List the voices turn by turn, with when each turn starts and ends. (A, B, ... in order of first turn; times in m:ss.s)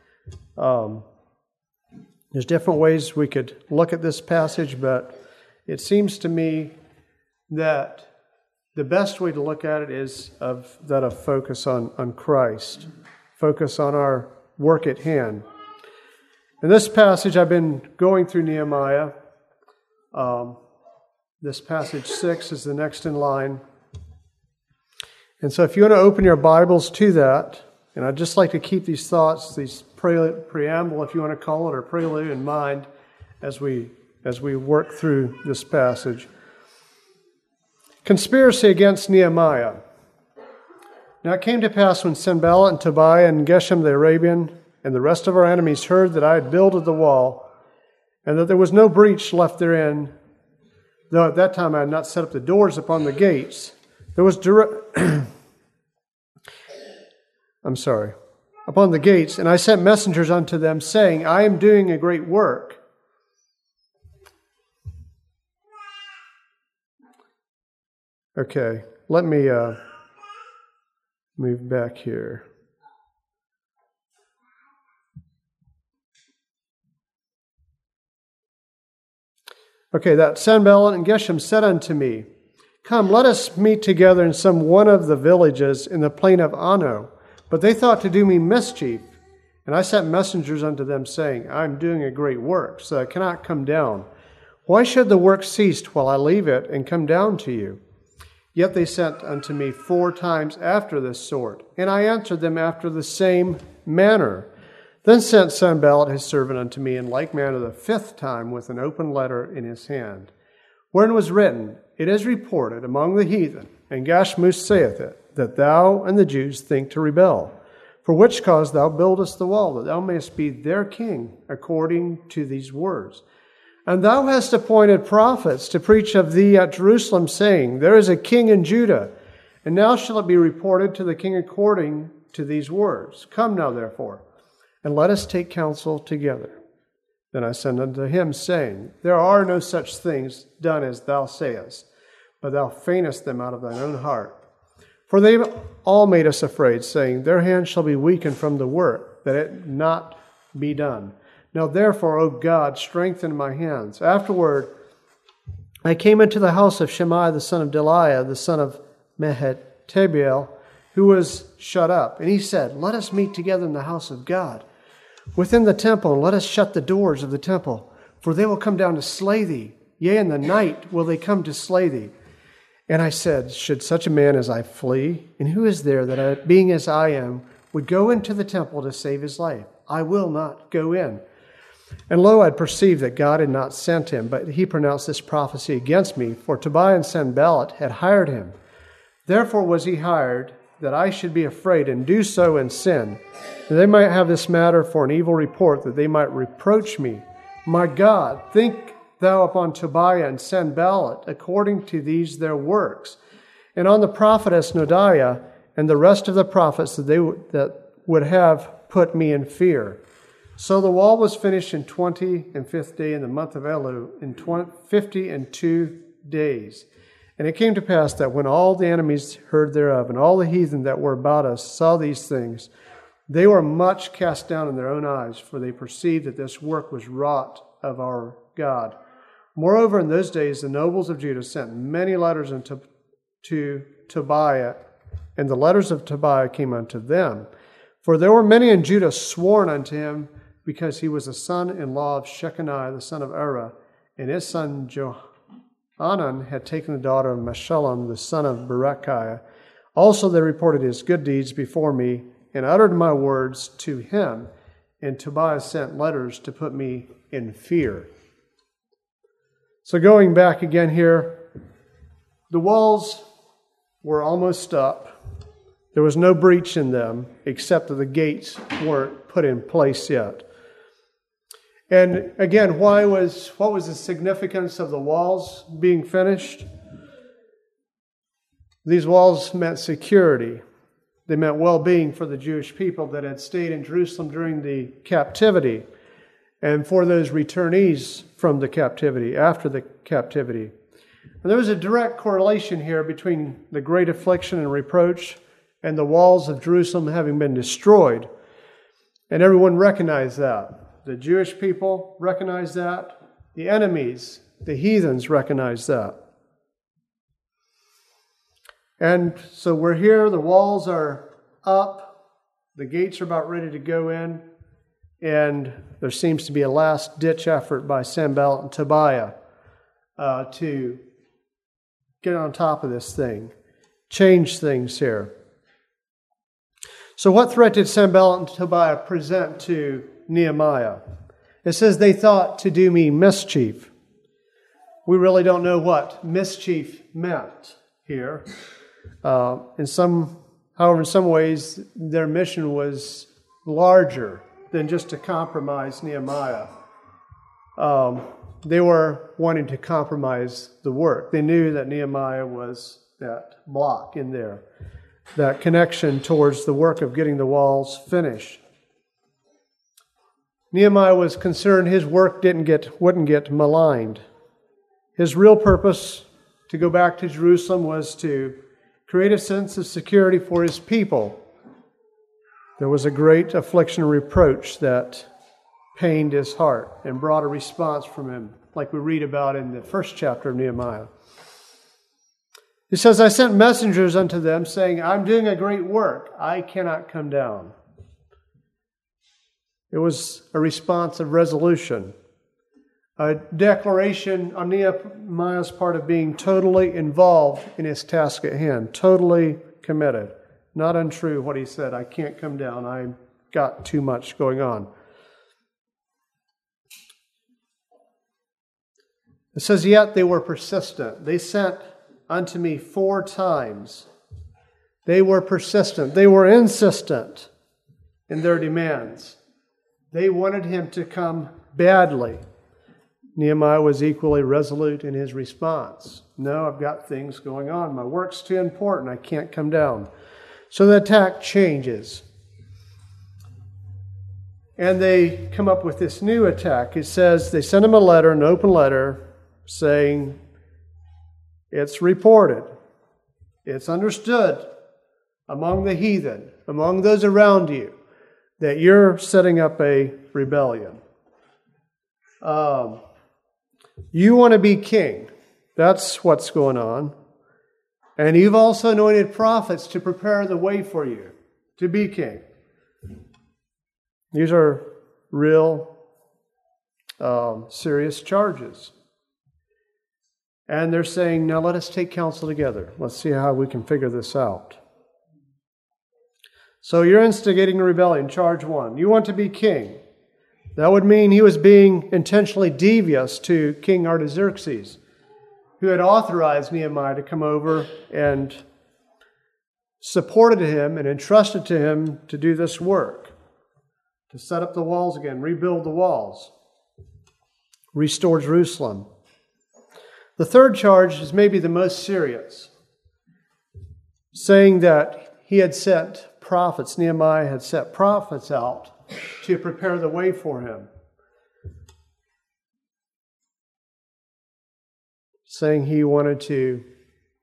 0:00.6-0:01.1 A
0:02.3-0:05.1 A
0:05.7-0:06.7 A
0:07.5-0:08.1 A
0:08.8-0:15.5 A
0:16.6-0:19.1 A
0:20.1-0:20.6 A
0:21.4-0:23.6 A
0:25.4-0:32.9 A
0:33.4-0:36.3 A
0:38.0-0:39.8 A
0:41.2-0:47.4 A
0:48.2-0:50.1 A
0:51.1-0:55.3 A
0:57.6-0:58.2 A
0:58.7-1:02.8 A
1:08.4-1:09.8 A
1:11.4-1:12.4 A
1:19.9-1:22.3 A
1:22.8-1:29.1 A
1:29.7-1:34.1 A
1:34.7-1:37.8 A
1:38.5-1:44.5 A
1:45.0-1:50.3 A
1:50.9-2:03.2 A
2:03.9-2:09.1 A
2:09.6-2:14.2 A
2:14.8-2:16.6 A
2:17.3-2:21.9 A
2:22.4-2:24.4 A
2:25.1-2:34.7 A
2:35.8-2:44.7 A
2:45.4-2:52.1 A
2:52.9-3:01.2 A
3:02.1-3:08.6 A
3:09.3-3:23.2 A
3:23.8-3:30.0 A
3:30.6-3:36.9 A
3:37.4-3:42.7 A
3:43.3-3:49.0 A
3:49.6-3:52.8 A
3:53.4-3:54.8 A
3:55.4-3:57.5 A
3:58.0-4:05.2 A
4:06.0-4:09.4 A
4:10.0-4:14.5 A
4:15.0-4:18.1 A
4:19.8-4:21.4 A
4:22.5-4:23.2 A
4:24.0-4:25.2 A
4:25.9-4:30.4 A
4:31.9-4:36.7 A
4:38.8-4:40.6 A
4:41.3-4:45.9 A
4:46.6-4:50.7 A
4:51.4-4:58.3 A
4:59.3-5:06.2 A
5:09.0-5:12.2 A
5:12.8-5:14.4 A
5:15.2-5:19.4 A
5:20.2-5:21.0 A
5:22.2-5:23.5 A
5:24.1-5:25.3 A
5:27.2-5:31.0 A
5:31.6-5:33.9 A
5:35.1-5:38.4 A
5:39.2-5:46.7 A
5:47.8-5:54.6 A
5:55.4-5:58.6 A
6:00.7-6:04.2 A
6:05.2-6:11.4 A
6:12.8-6:15.3 A
6:16.0-6:21.1 A
6:22.9-6:27.8 A
6:29.9-6:32.2 A
6:33.2-6:44.9 A
6:49.5-6:54.1 A
6:55.1-6:57.5 A
6:58.3-6:59.4 A
7:00.1-7:02.4 A
7:03.4-7:10.1 A
7:10.7-7:12.2 A
7:14.8-7:20.4 A
7:21.7-7:22.7 A
7:23.6-7:24.7 A
7:25.5-7:28.0 A
7:28.6-7:31.0 A
7:32.4-7:33.0 A
7:34.1-7:37.2 A
7:38.2-7:42.4 A
7:44.3-7:45.9 A
7:47.2-7:48.9 A
7:50.7-7:54.8 A
7:56.8-8:00.0 A
8:00.8-8:05.0 A
8:05.8-8:08.6 A
8:10.0-8:13.3 A
8:14.3-8:16.5 A
8:17.9-8:19.1 A
8:20.4-8:22.7 A
8:24.3-8:30.9 A
8:35.5-8:36.8 A